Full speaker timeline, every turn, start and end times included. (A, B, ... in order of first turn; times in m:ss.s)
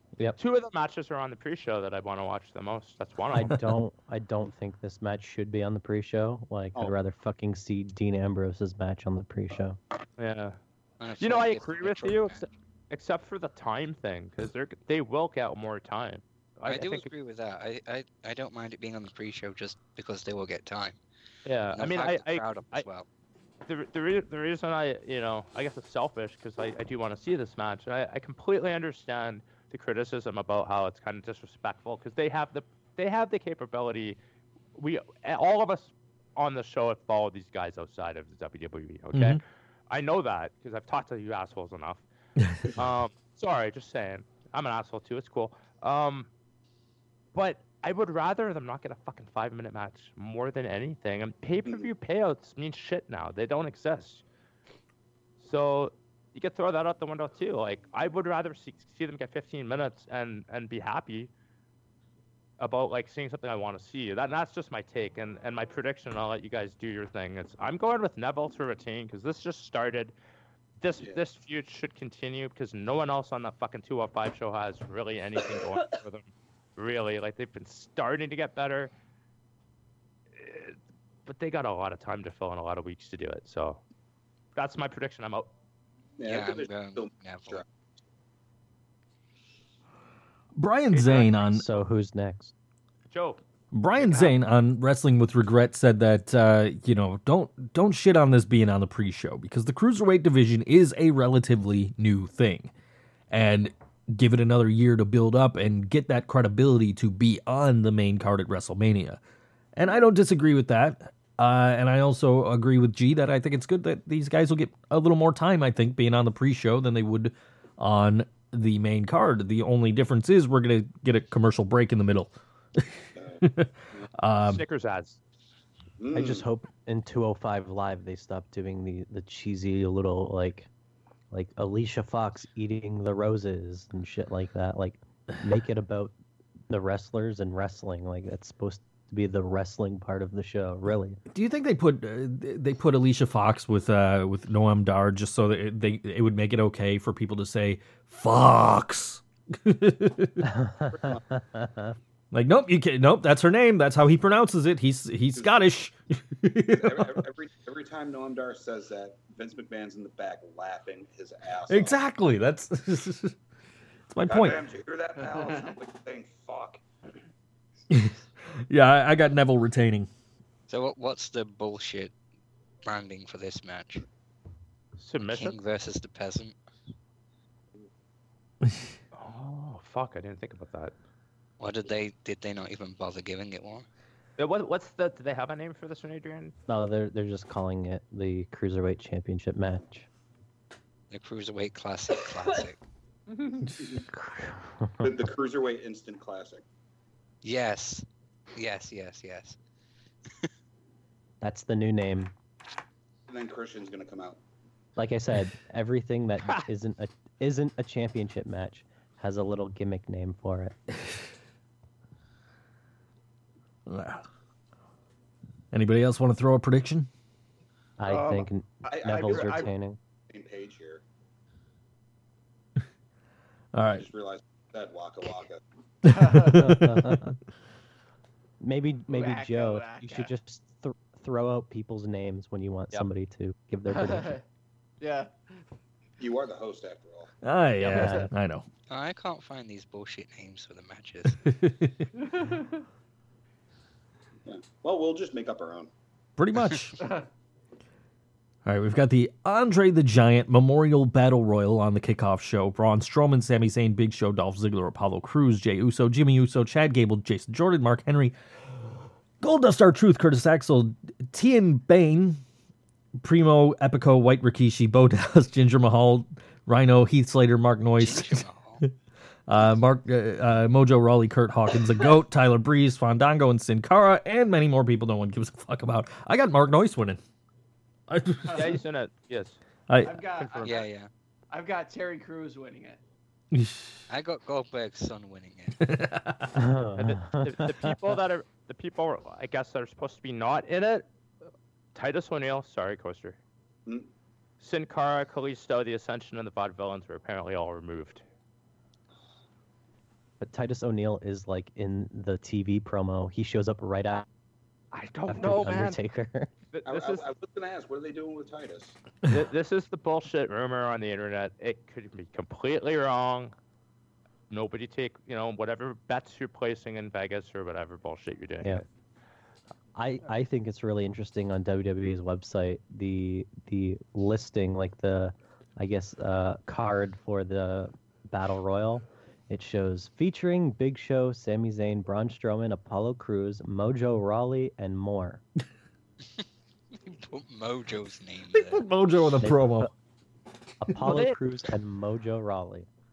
0:00.4-0:03.6 A
0:03.3-0:09.8 B
0:10.2-0:10.6 A
0:11.0-0:12.5 C
0:11.2-0:17.1 A
0:16.6-0:21.0 C
0:21.4-0:22.9 A
0:21.7-0:23.1 C
0:23.7-0:34.2 A
0:34.8-0:42.0 A
0:39.1-0:39.4 D
0:42.4-0:42.6 D
0:42.7-0:46.3 A
0:47.3-0:54.2 A
0:55.4-1:01.3 A
1:02.6-1:10.1 A
1:10.8-1:18.9 A
1:20.4-1:23.8 A
1:24.6-1:25.5 A
1:26.2-1:27.6 E
1:26.2-1:27.6 C
1:30.6-1:31.6 D
1:30.9-1:31.5 A
1:31.5-1:32.5 B
1:33.1-1:33.4 A
1:33.7-1:42.7 D
1:34.0-1:34.3 A
1:43.3-1:49.2 D
1:49.8-2:02.9 D
2:03.2-2:04.1 E
2:03.4-2:04.6 D
2:04.4-2:05.2 A
2:06.0-2:06.5 E
2:06.1-2:10.7 B
2:11.3-2:16.1 B
2:16.7-2:21.2 B
2:21.3-2:30.4 D
2:30.4-2:32.0 B
2:30.9-2:31.2 E
2:32.3-2:37.2 D
2:36.8-2:42.0 E
2:41.7-2:43.4 D
2:44.1-2:44.6 D
2:44.3-2:46.8 E
2:45.2-2:45.8 F
2:47.9-2:50.1 D
2:50.7-2:52.1 C
2:52.8-2:54.0 C
2:55.0-2:55.6 A
2:55.3-2:56.6 C
2:59.1-3:00.9 A
3:01.6-3:03.9 C
3:04.4-3:06.5 A
3:06.7-3:10.1 B
3:11.1-3:12.8 C
3:13.8-3:14.0 E
3:14.1-3:15.1 B
3:15.0-3:16.6 E
3:17.4-3:19.6 C
3:21.4-3:22.3 B
3:23.3-3:24.4 E
3:25.0-3:30.8 B
3:33.9-3:34.2 D
3:35.7-3:37.1 D
3:38.0-3:40.0 B
3:38.1-3:39.7 F
3:38.9-3:39.7 E
3:40.3-3:41.0 E
3:43.7-3:44.1 D
3:43.9-3:45.6 E
3:46.0-3:46.8 F
3:46.1-3:47.3 D
3:46.5-3:47.3 B
3:48.6-3:54.4 B
3:49.1-3:50.3 F
3:53.9-3:54.4 F
3:55.0-3:55.3 F
3:56.2-3:57.3 E
3:57.4-3:58.6 D
3:57.8-3:58.2 F
3:57.9-3:58.3 B
3:58.9-4:01.4 C
4:01.3-4:02.1 D
4:02.2-4:02.8 F
4:04.5-4:05.9 E
4:06.4-4:07.0 D
4:07.0-4:07.3 F
4:08.6-4:22.4 D
4:23.2-4:28.9 D
4:28.0-4:28.8 C
4:29.5-4:37.2 D
4:38.1-4:38.8 D
4:38.4-4:38.8 F
4:38.5-4:39.6 A
4:39.9-4:40.2 D
4:40.0-4:40.9 F
4:40.4-4:40.8 A
4:40.6-4:41.1 C
4:41.5-4:43.0 F
4:43.5-4:44.0 D
4:44.1-4:45.8 C
4:45.8-4:46.5 D
4:46.5-4:48.0 B
4:47.0-4:51.0 A
4:52.0-4:53.4 A
4:54.6-4:58.2 A
5:00.4-5:04.3 B
5:04.9-5:06.0 A
5:05.3-5:06.5 B
5:06.7-5:07.3 A
5:06.9-5:09.0 E
5:09.3-5:13.5 A
5:14.5-5:18.8 A
5:20.0-5:35.4 B
5:36.9-5:38.8 C
5:38.5-5:39.9 D
5:39.4-5:39.9 B
5:40.8-5:42.9 B
5:41.0-5:41.4 A